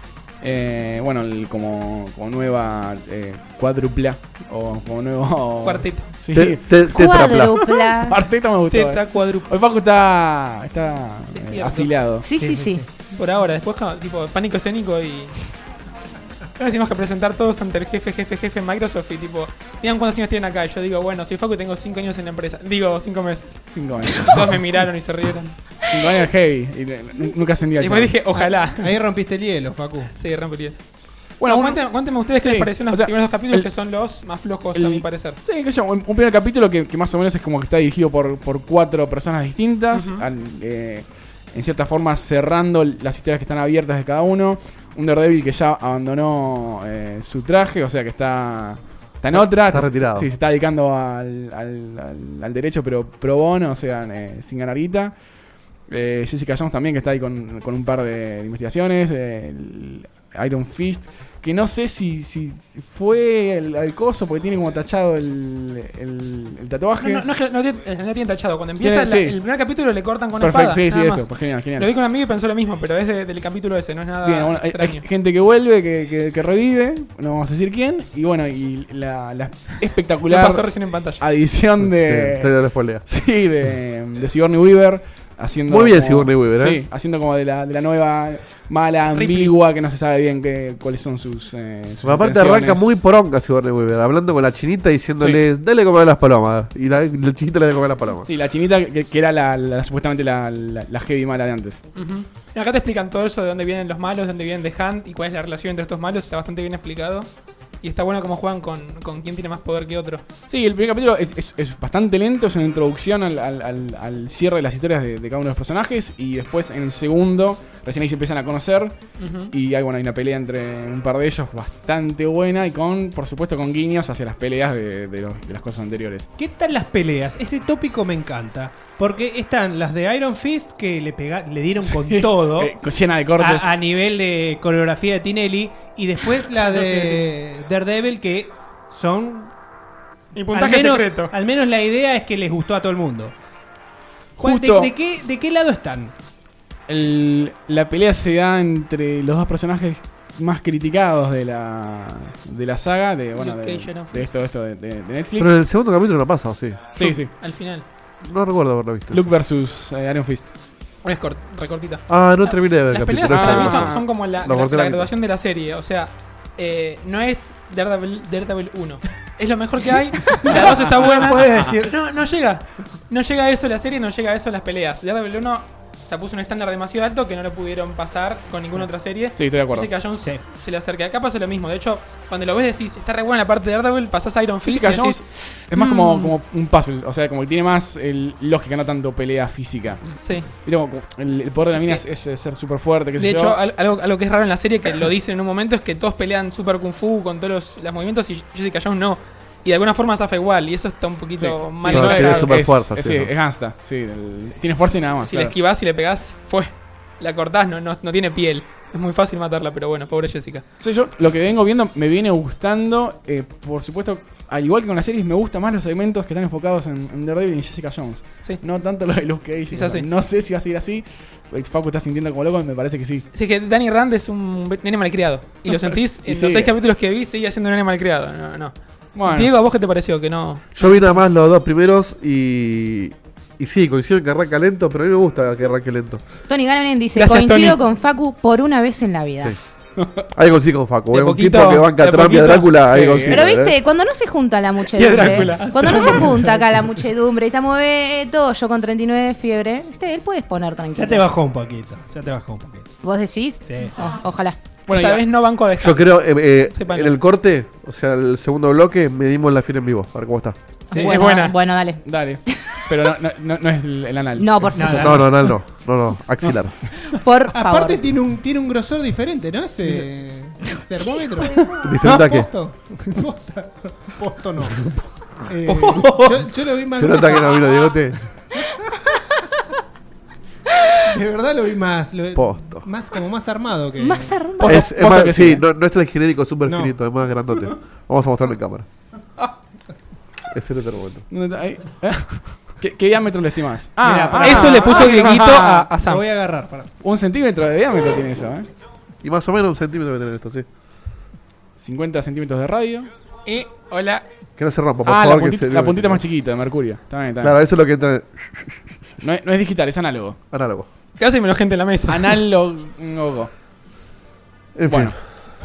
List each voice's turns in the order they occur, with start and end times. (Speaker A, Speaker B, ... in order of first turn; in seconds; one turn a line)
Speaker A: 0.4-6.8
Speaker B: 5.6-6.1
Speaker C: 6.3-7.7
Speaker D: 6.9-8.2
Speaker A: 7.9-12.2
Speaker B: 8.7-9.5
Speaker B: 11.3-11.9
Speaker D: 12.2-12.8
Speaker E: 12.4-12.8
Speaker B: 13.1-15.4
Speaker B: 16.6-25.5
Speaker A: 23.7-24.6
Speaker A: 25.8-28.1
Speaker B: 27.8-28.9
Speaker E: 28.8-30.1
Speaker B: 30.1-30.8
Speaker A: 31.4-33.7
Speaker B: 31.4-35.4
Speaker A: 34.7-55.1
Speaker B: 39.9-40.2
Speaker C: 49.3-50.3
Speaker A: 55.9-67.2
Speaker B: 67.0-75.0
Speaker A: 68.8-69.3
Speaker A: 70.4-71.9
Speaker A: 74.2-80.6
Speaker B: 80.3-81.2
Speaker A: 81.2-92.8
Speaker C: 81.8-83.0
Speaker C: 85.7-86.8
Speaker B: 89.1-89.5
Speaker C: 92.0-98.3
Speaker A: 98.3-101.8
Speaker B: 101.9-107.3
Speaker B: 107.8-110.2
Speaker A: 110.5-119.0
Speaker B: 119.2-119.5
Speaker A: 119.5-126.3
Speaker E: 126.4-132.8
Speaker A: 132.0-133.7
Speaker E: 133.4-139.5
Speaker B: 140.3-141.3
Speaker E: 140.5-143.3
Speaker E: 144.4-146.1
Speaker A: 144.4-144.9
Speaker A: 146.9-155.6
Speaker B: 153.3-154.3
Speaker C: 155.4-156.9
Speaker A: 156.9-157.3
Speaker B: 157.0-157.8
Speaker C: 158.2-159.2
Speaker A: 159.1-160.5
Speaker B: 161.0-186.3
Speaker C: 162.1-165.1
Speaker A: 163.3-164.0
Speaker E: 170.3-171.9
Speaker A: 179.3-179.9
Speaker A: 184.6-193.6
Speaker B: 190.2-190.5
Speaker B: 191.7-192.0
Speaker B: 193.2-202.6
Speaker A: 201.4-205.5
Speaker C: 201.8-203.3
Speaker B: 205.2-210.6
Speaker A: 210.8-223.2
Speaker B: 219.7-220.1
Speaker B: 223.3-231.2
Speaker A: 225.7-226.7
Speaker A: 229.1-229.5
Speaker C: 230.8-236.2
Speaker D: 236.5-239.6
Speaker B: 237.2-237.8
Speaker C: 240.3-243.7
Speaker B: 241.1-242.8
Speaker A: 242.8-243.4
Speaker D: 243.3-251.3
Speaker B: 244.9-246.3
Speaker E: 245.4-246.5
Speaker E: 250.9-252.9
Speaker D: 253.0-254.6
Speaker E: 253.7-253.9
Speaker A: 254.9-255.2
Speaker B: 254.9-257.1
Speaker C: 255.8-260.6
Speaker E: 260.9-261.2
Speaker D: 260.9-262.8
Speaker B: 260.9-261.5
Speaker A: 262.0-265.2
Speaker D: 264.4-265.2
Speaker E: 264.8-265.3
Speaker C: 264.9-266.8
Speaker D: 267.1-268.0
Speaker E: 267.5-277.7
Speaker C: 271.8-272.5
Speaker B: 275.6-276.2
Speaker C: 276.9-278.2
Speaker E: 281.0-284.5
Speaker C: 282.3-282.9
Speaker D: 284.0-284.9
Speaker A: 284.6-285.6
Speaker C: 284.6-288.9
Speaker E: 286.6-286.9
Speaker C: 290.5-291.2
Speaker A: 291.3-295.9
Speaker E: 294.0-296.9
Speaker B: 294.4-296.2
Speaker A: 297.0-298.7
Speaker C: 299.2-300.7
Speaker A: 301.8-303.1
Speaker B: 303.5-304.2
Speaker C: 304.6-306.2
Speaker A: 305.0-307.6
Speaker C: 307.4-308.8
Speaker A: 309.2-310.4
Speaker C: 310.5-310.9
Speaker B: 311.2-312.4
Speaker A: 312.1-313.5
Speaker C: 314.7-315.2
Speaker A: 314.9-315.2